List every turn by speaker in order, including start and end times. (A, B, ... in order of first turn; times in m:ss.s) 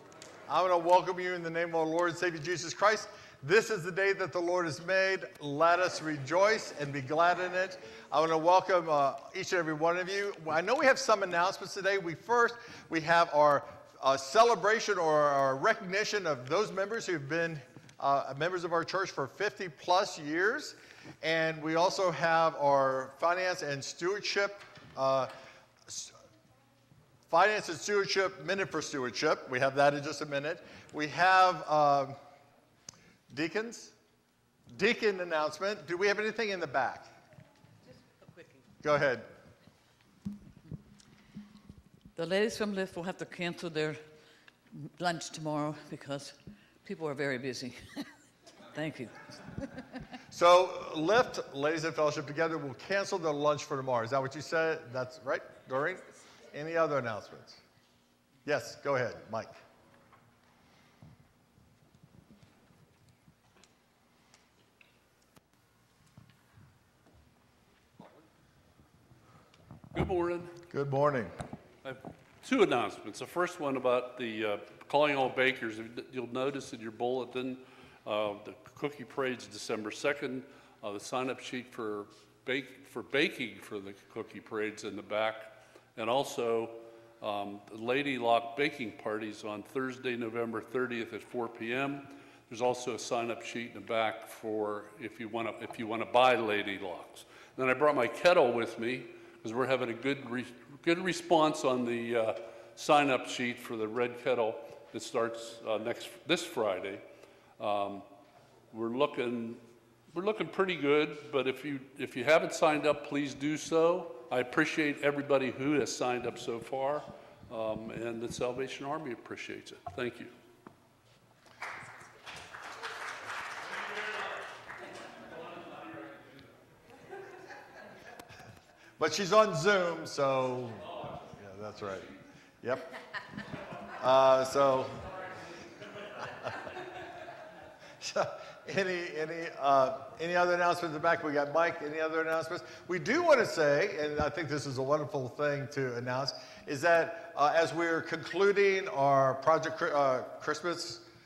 0:00.5-0:25.3 A
0:25.9-0:26.2 A
0:27.3-0:32.2 A
0:33.3-0:34.0 A
0:34.7-0:37.1 A
0:38.8-0:39.3 A
0:42.2-0:44.1 B
0:44.7-0:47.9 B
0:48.7-0:49.1 B
0:50.3-0:57.6 A
0:58.4-0:59.5 A
1:09.9-1:10.6 C
1:10.7-1:11.3 A
1:11.8-1:47.0 C
1:47.6-1:48.1 C
1:48.7-2:00.3 C
2:09.0-2:12.9 A
2:13.9-2:15.1 A
2:16.2-2:16.6 A
2:18.0-2:31.1 A